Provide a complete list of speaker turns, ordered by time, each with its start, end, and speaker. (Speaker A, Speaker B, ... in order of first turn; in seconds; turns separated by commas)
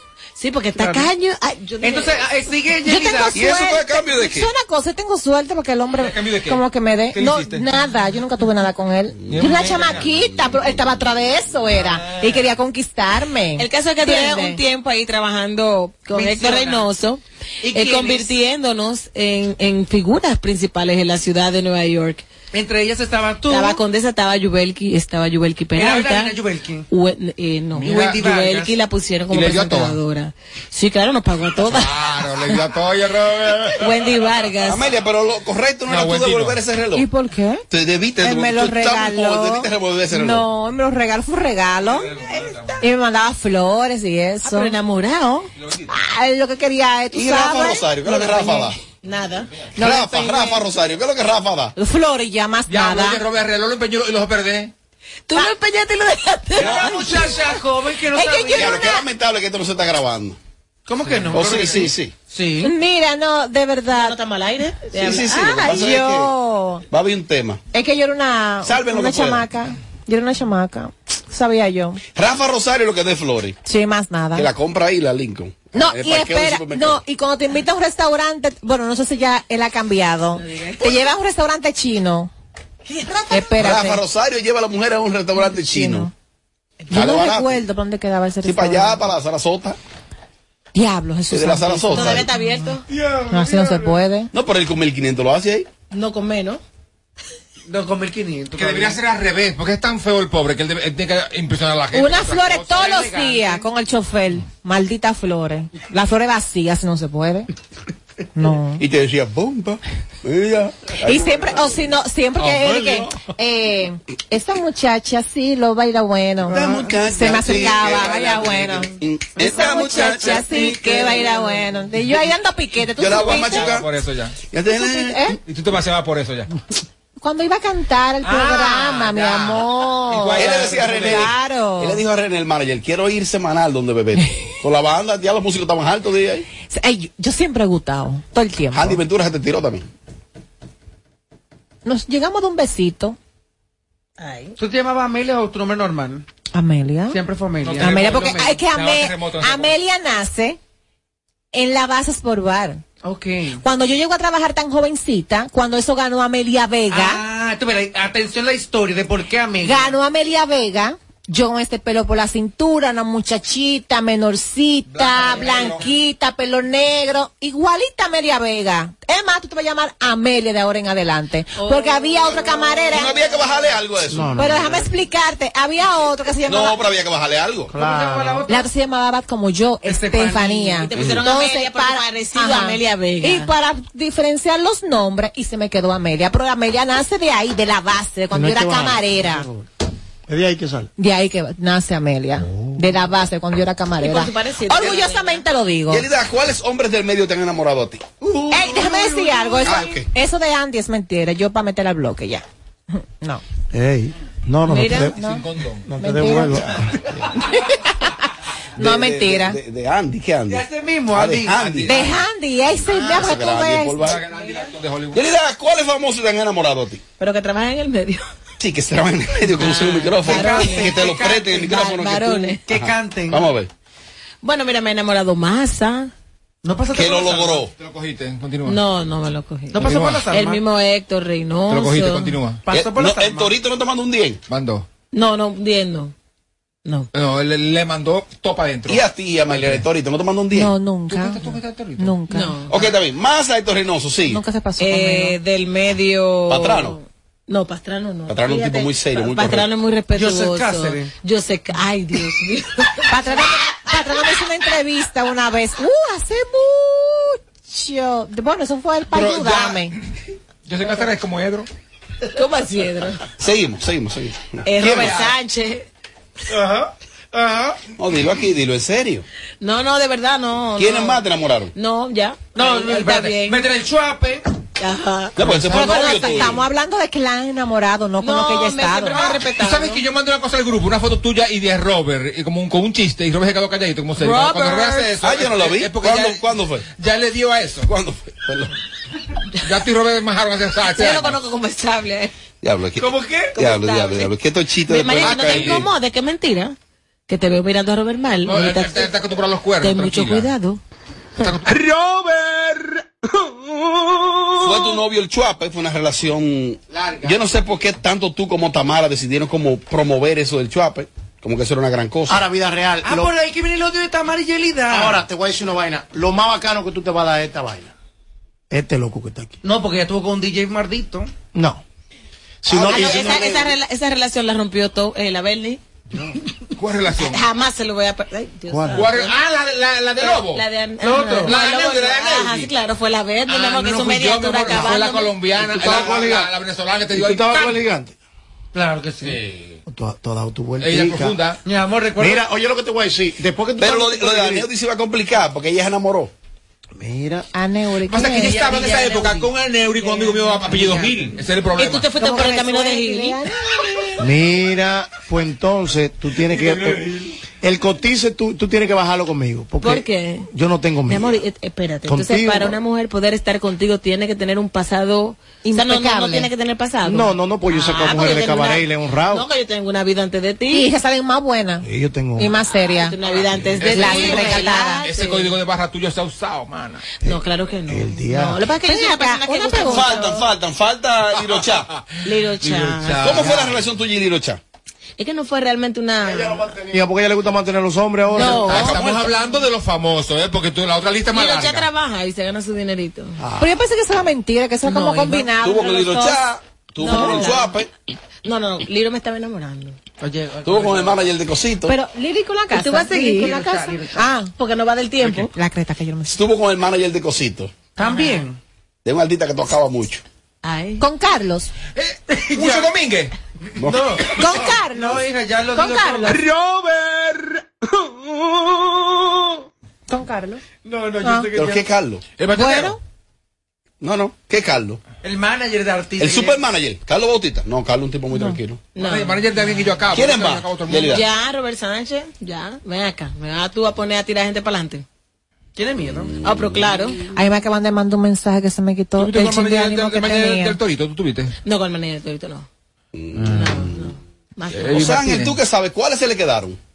Speaker A: 0.3-2.2, Speaker B: 0.8-1.1, Speaker B: 1.8-3.4, Speaker C: 2.8-14.6, Speaker D: 3.3-4.5, Speaker E: 6.0-7.7, Speaker D: 9.2-10.8, Speaker E: 9.3-10.1, Speaker E: 11.8-12.4, Speaker A: 13.6-22.2, Speaker B: 16.1-16.8, Speaker B: 17.6-18.3, Speaker B: 22.5-23.8, Speaker A: 23.5-26.3, Speaker B: 25.7-26.9, Speaker A: 26.9-31.9, Speaker E: 27.8-28.1, Speaker B: 27.8-28.7, Speaker E: 29.3-30.0, Speaker E: 31.6-33.8, Speaker A: 33.8-34.8, Speaker D: 34.6-37.1, Speaker E: 35.9-36.6, Speaker C: 36.9-37.6, Speaker D: 37.7-40.5, Speaker C: 38.2-42.1, Speaker E: 41.8-42.8, Speaker C: 42.8-44.7, Speaker A: 44.4-45.5, Speaker E: 45.6-45.9, Speaker C: 45.9-48.7, Speaker D: 47.1-48.8, Speaker A: 49.0-49.5, Speaker C: 49.8-50.6, Speaker D: 49.8-51.7, Speaker C: 51.8-53.2, Speaker E: 52.7-54.7, Speaker A: 55.3-57.4, Speaker B: 56.6-58.8, Speaker D: 56.6-57.0, Speaker C: 58.1-59.0, Speaker D: 58.5-60.4, Speaker B: 60.9-62.7, Speaker D: 61.3-62.1, Speaker C: 62.6-64.2, Speaker A: 63.9-65.5, Speaker D: 64.9-66.3, Speaker C: 65.2-66.8, Speaker D: 66.9-67.6, Speaker C: 67.7-72.0, Speaker D: 68.6-69.5, Speaker D: 72.1-73.6, Speaker C: 73.6-74.5, Speaker D: 74.3-77.0, Speaker C: 75.7-82.3, Speaker A: 80.3-81.0, Speaker A: 82.9-83.5, Speaker C: 83.3-84.0, Speaker D: 83.6-86.1, Speaker C: 85.3-86.1, Speaker D: 86.9-87.6, Speaker C: 86.9-89.0, Speaker D: 88.4-89.8, Speaker C: 90.7-92.7, Speaker D: 91.3-92.3, Speaker A: 91.9-92.8, Speaker B: 92.9-93.8, Speaker C: 93.3-94.3, Speaker D: 94.3-95.7, Speaker A: 95.9-96.6, Speaker B: 97.7-99.0, Speaker E: 98.5-103.0, Speaker C: 101.9-107.5, Speaker B: 102.7-103.6, Speaker C: 108.3-108.8, Speaker D: 108.8-111.9, Speaker C: 111.0-123.8, Speaker E: 112.4-112.9, Speaker D: 116.5-121.3, Speaker D: 123.0-123.9, Speaker E: 123.0-124.4, Speaker D: 124.5-125.3, Speaker C: 124.7-125.4, Speaker E: 125.4-126.5, Speaker C: 127.2-132.0, Speaker E: 128.2-131.3, Speaker D: 130.4-136.4, Speaker C: 136.7-139.0, Speaker D: 138.7-139.9, Speaker C: 141.8-143.2, Speaker A: 144.2-144.6, Speaker B: 144.6-146.2, Speaker C: 146.5-147.2, Speaker B: 147.1-148.5, Speaker E: 147.6-149.7, Speaker C: 147.8-150.6, Speaker C: 151.5-152.8, Speaker B: 153.0-153.6, Speaker C: 153.6-157.2, Speaker B: 156.9-159.9, Speaker C: 159.6-173.2, Speaker E: 164.9-165.9, Speaker A: 171.6-173.7, Speaker D: 172.9-174.5, Speaker F: 174.1-174.8, Speaker C: 174.4-176.8, Speaker D: 176.4-177.7, Speaker F: 177.7-178.4, Speaker B: 177.7-178.7, Speaker C: 178.5-189.4, Speaker B: 179.8-180.8, Speaker A: 180.8-183.5, Speaker D: 180.9-181.2, Speaker F: 188.3-189.7, Speaker F: 190.3-190.9, Speaker C: 191.0-196.1, Speaker F: 192.5-193.0, Speaker A: 194.0-195.4, Speaker D: 195.9-198.1, Speaker C: 198.5-202.4, Speaker B: 198.6-199.7, Speaker D: 199.6-200.1, Speaker C: 202.9-203.4, Speaker F: 203.7-205.2, Speaker C: 204.7-205.4, Speaker A: 204.7-205.1, Speaker E: 205.1-205.9, Speaker F: 205.9-207.0, Speaker C: 206.0-206.6, Speaker C: 207.3-208.2, Speaker C: 208.8-209.6, Speaker D: 208.8-212.2, Speaker B: 210.5-212.1, Speaker C: 211.9-214.1, Speaker D: 212.9-214.2, Speaker E: 214.0-215.2, Speaker D: 215.1-217.0, Speaker A: 217.2-218.2, Speaker D: 218.6-223.7, Speaker A: 219.6-222.6, Speaker B: 220.2-221.4, Speaker B: 222.7-223.5, Speaker A: 224.4-226.1, Speaker B: 226.6-227.6, Speaker D: 226.9-227.7, Speaker E: 227.8-228.8, Speaker A: 228.7-232.3, Speaker B: 229.7-230.6, Speaker E: 229.8-230.2, Speaker E: 231.7-232.6, Speaker B: 232.7-233.5, Speaker D: 232.7-234.4, Speaker E: 234.5-234.8, Speaker A: 235.1-236.1, Speaker E: 237.1-239.8, Speaker D: 238.9-240.7, Speaker C: 240.5-241.4, Speaker E: 241.1-242.1, Speaker C: 242.0-242.6, Speaker A: 242.3-242.8, Speaker D: 242.7-244.4, Speaker C: 244.3-245.4, Speaker A: 244.8-253.4, Speaker D: 246.5-247.0, Speaker D: 248.3-249.7, Speaker B: 250.1-251.1, Speaker C: 253.1-259.9, Speaker E: 259.1-260.0, Speaker E: 260.6-261.7, Speaker A: 262.3-263.2, Speaker D: 263.4-265.2, Speaker A: 264.6-265.9, Speaker B: 266.5-267.8, Speaker D: 268.0-269.2, Speaker A: 269.6-271.2, Speaker D: 270.8-271.7, Speaker A: 271.7-273.6, Speaker B: 272.5-274.4, Speaker A: 274.8-276.5, Speaker D: 275.4-276.6, Speaker C: 275.7-279.3, Speaker A: 278.2-280.0, Speaker E: 279.2-287.9, Speaker A: 284.2-285.1, Speaker D: 285.2-286.9, Speaker D: 287.9-288.7, Speaker E: 289.6-291.4, Speaker A: 290.9-292.3, Speaker D: 292.6-295.9, Speaker B: 293.0-293.5, Speaker A: 293.5-294.3, Speaker A: 294.9-296.8, Speaker E: 295.2-295.9, Speaker A: 297.3-299.1, Speaker E: 298.4-300.5, Speaker A: 299.8-300.8, Speaker E: 301.4-301.7, Speaker B: 301.7-302.8, Speaker D: 304.6-312.4, Speaker F: 312.3-313.3, Speaker B: 313.0-315.2, Speaker F: 314.9-317.9, Speaker F: 318.7-319.6, Speaker B: 319.6-321.3, Speaker F: 321.5-321.8, Speaker F: 322.6-323.6, Speaker D: 322.7-323.6, Speaker A: 322.9-325.8, Speaker E: 326.8-327.4, Speaker A: 327.3-329.3, Speaker F: 328.7-329.1, Speaker E: 328.9-330.6, Speaker A: 330.2-335.3, Speaker B: 331.0-331.6, Speaker E: 331.2-332.7, Speaker E: 333.5-337.8, Speaker F: 335.6-336.5, Speaker F: 337.1-338.1, Speaker B: 338.7-339.4, Speaker E: 339.2-339.8, Speaker F: 339.9-341.4, Speaker E: 340.8-341.6, Speaker B: 341.6-342.4, Speaker F: 342.2-344.7, Speaker D: 343.8-346.3, Speaker F: 347.0-347.5, Speaker C: 347.5-348.8, Speaker E: 348.1-352.1, Speaker B: 348.4-349.5, Speaker B: 350.6-351.3, Speaker A: 351.8-353.4, Speaker C: 352.1-354.2, Speaker F: 354.2-357.0, Speaker E: 356.6-357.0, Speaker F: 357.6-361.4, Speaker A: 359.8-360.5, Speaker A: 361.1-370.9, Speaker F: 362.1-362.8, Speaker C: 365.6-366.5, Speaker F: 367.0-369.4, Speaker C: 370.7-371.9, Speaker F: 371.8-372.6, Speaker C: 372.4-373.1, Speaker A: 372.8-375.5, Speaker E: 373.3-377.0, Speaker C: 373.9-375.0, Speaker A: 377.2-380.4, Speaker F: 377.2-378.6, Speaker C: 378.8-380.3, Speaker D: 379.9-381.9, Speaker E: 381.4-383.8, Speaker A: 382.2-383.6, Speaker D: 383.2-384.6, Speaker A: 385.2-386.6, Speaker F: 386.2-389.0, Speaker C: 388.4-388.9, Speaker A: 388.4-388.7, Speaker E: 388.4-391.9, Speaker D: 388.7-389.3, Speaker A: 391.3-393.4, Speaker F: 393.4-393.7, Speaker C: 393.6-396.4, Speaker A: 394.8-395.5, Speaker D: 395.6-397.9, Speaker A: 397.0-397.7, Speaker C: 397.1-397.5, Speaker A: 398.4-400.0, Speaker B: 400.2-401.3, Speaker D: 400.6-401.9, Speaker C: 401.9-404.5, Speaker A: 402.7-403.6, Speaker B: 403.3-404.2, Speaker A: 404.6-405.5, Speaker C: 405.5-406.4, Speaker D: 406.3-407.7, Speaker B: 408.0-408.6, Speaker D: 409.0-410.2, Speaker A: 410.6-411.0, Speaker C: 411.0-411.7, Speaker E: 411.9-413.3, Speaker B: 412.3-412.9, Speaker D: 413.8-414.2, Speaker B: 413.8-417.5, Speaker C: 414.3-416.4, Speaker C: 420.1-420.6, Speaker B: 420.8-421.8, Speaker C: 421.2-421.5, Speaker D: 421.5-422.2, Speaker E: 422.4-422.9, Speaker C: 422.5-423.0, Speaker D: 424.0-425.0, Speaker B: 425.2-426.6, Speaker D: 426.2-428.8, Speaker C: 428.3-428.6, Speaker A: 428.9-429.4, Speaker E: 429.0-431.2, Speaker D: 430.1-431.2, Speaker A: 431.1-435.0, Speaker B: 435.8-436.3, Speaker D: 436.2-436.9, Speaker A: 436.4-437.2, Speaker C: 437.3-440.8, Speaker E: 439.2-441.5, Speaker A: 441.6-442.7, Speaker D: 443.1-444.1, Speaker A: 443.4-445.2, Speaker E: 444.7-445.6, Speaker D: 444.9-446.8